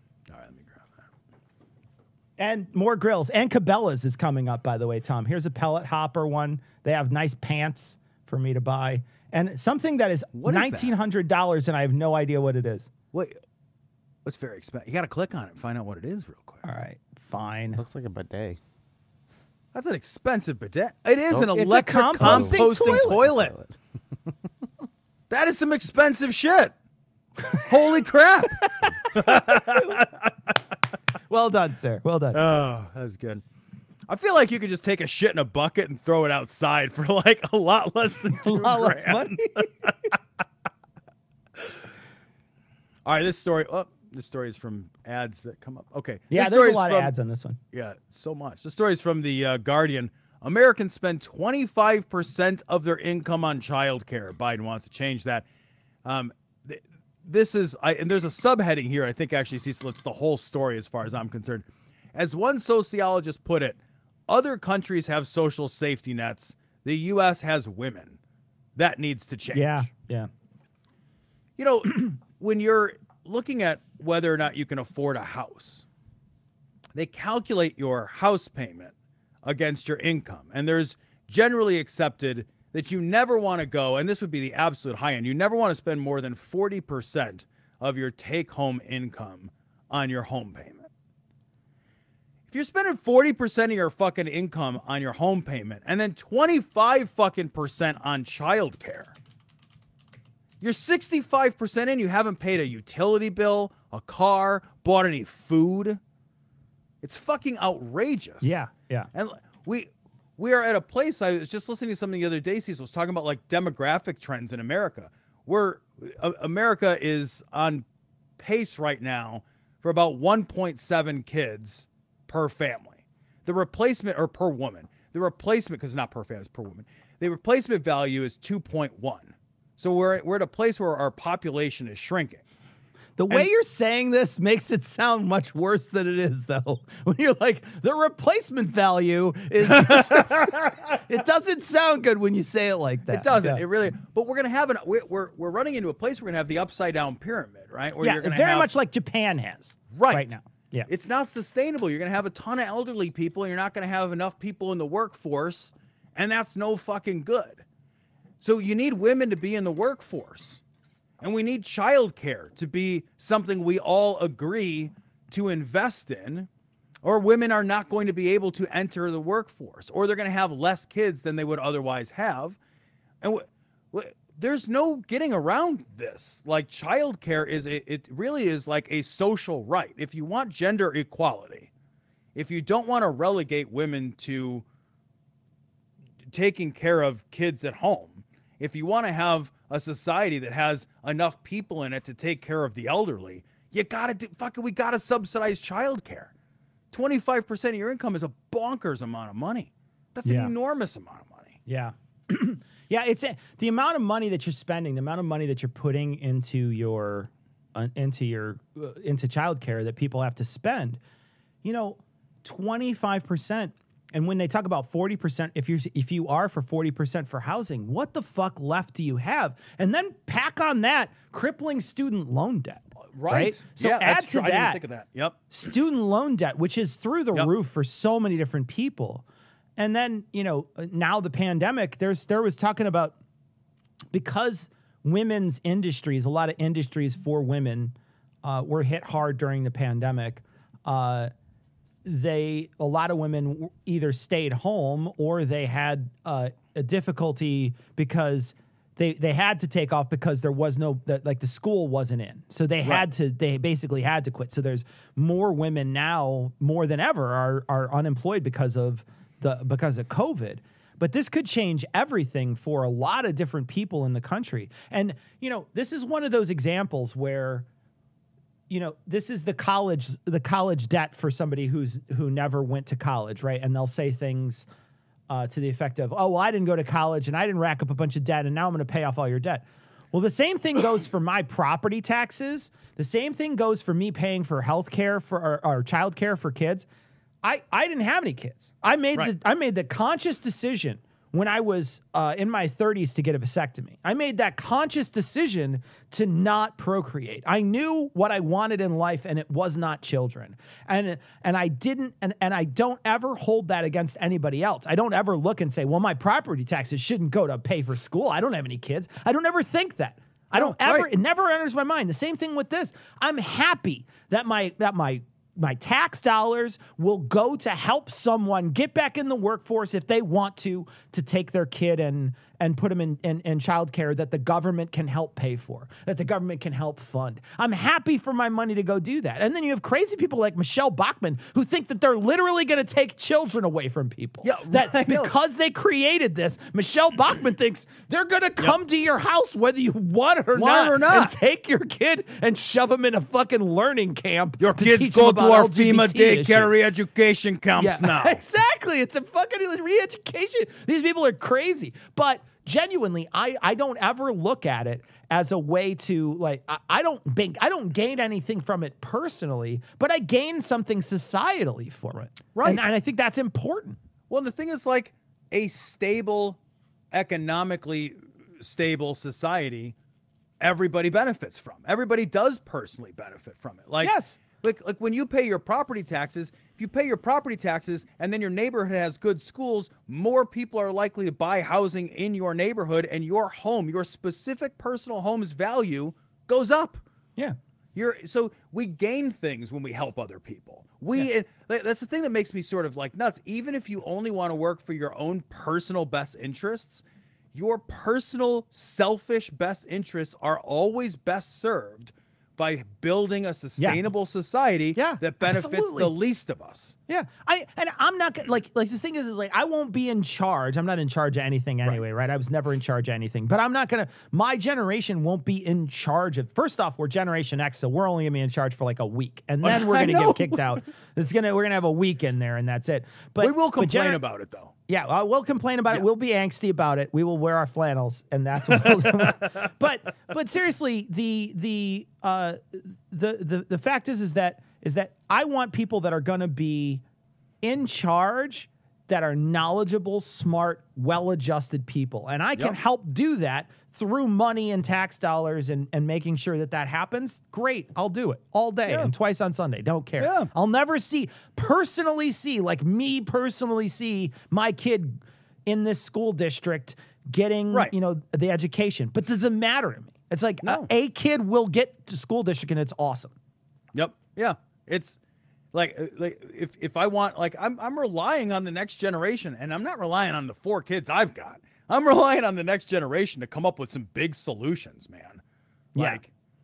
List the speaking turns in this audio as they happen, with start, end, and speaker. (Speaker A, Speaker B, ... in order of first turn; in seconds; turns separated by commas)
Speaker A: 0.3-1.1, Speaker B: 2.4-12.9, Speaker A: 10.3-10.9, Speaker A: 13.1-13.4, Speaker A: 14.2-16.6, Speaker B: 16.6-17.8, Speaker C: 17.8-18.6, Speaker A: 19.7-23.5, Speaker B: 21.5-23.2, Speaker C: 22.2-23.8, Speaker A: 25.3-26.7, Speaker A: 27.5-30.3, Speaker B: 31.3-32.4, Speaker A: 32.3-33.4, Speaker A: 34.1-39.9, Speaker B: 38.4-39.7, Speaker A: 43.0-47.1, Speaker B: 46.3-47.6, Speaker A: 47.7-55.5, Speaker A: 56.0-68.2, Speaker A: 68.8-69.9, Speaker B: 69.5-70.3, Speaker A: 71.6-75.8, Speaker A: 76.9-90.9, Speaker A: 92.5-99.1, Speaker A: 100.6-106.0, Speaker A: 107.0-108.6, Speaker B: 108.4-109.1, Speaker A: 109.1-117.8, Speaker A: 118.4-132.4, Speaker B: 133.2-143.6, Speaker A: 143.1-148.7, Speaker B: 148.0-150.9, Speaker A: 149.9-150.3, Speaker A: 150.9-157.6, Speaker A: 158.4-160.6, Speaker A: 161.2-166.5, Speaker A: 167.0-172.6, Speaker A: 173.2-181.7, Speaker A: 182.3-184.6, Speaker A: 186.3-196.3, Speaker A: 196.9-201.6, Speaker B: 200.2-200.5, Speaker B: 201.7-211.0, Speaker B: 211.6-224.8, Speaker A: 223.1-225.4, Speaker B: 225.5-229.2, Speaker B: 229.8-233.2, Speaker B: 234.1-241.3, Speaker B: 242.0-267.7, Speaker B: 268.7-274.7, Speaker B: 275.3-286.9, Speaker B: 287.4-346.7, Speaker A: 310.5-311.1, Speaker A: 334.4-335.3, Speaker A: 340.5-341.4, Speaker A: 344.6-348.4, Speaker B: 347.8-364.0, Speaker A: 362.5-362.8, Speaker A: 364.3-366.6, Speaker A: 367.1-369.9, Speaker A: 370.6-387.0, Speaker B: 374.0-374.4, Speaker A: 387.9-397.0, Speaker A: 397.5-406.9, Speaker B: 404.9-406.1, Speaker B: 407.1-424.2, Speaker A: 419.6-420.6, Speaker A: 423.4-424.7, Speaker B: 424.9-437.0, Speaker B: 437.6-463.3, Speaker A: 448.9-449.1, Speaker A: 450.2-450.5, Speaker A: 460.6-460.9, Speaker A: 463.9-465.2, Speaker A: 465.7-475.4, Speaker A: 475.9-476.3, Speaker B: 475.9-476.2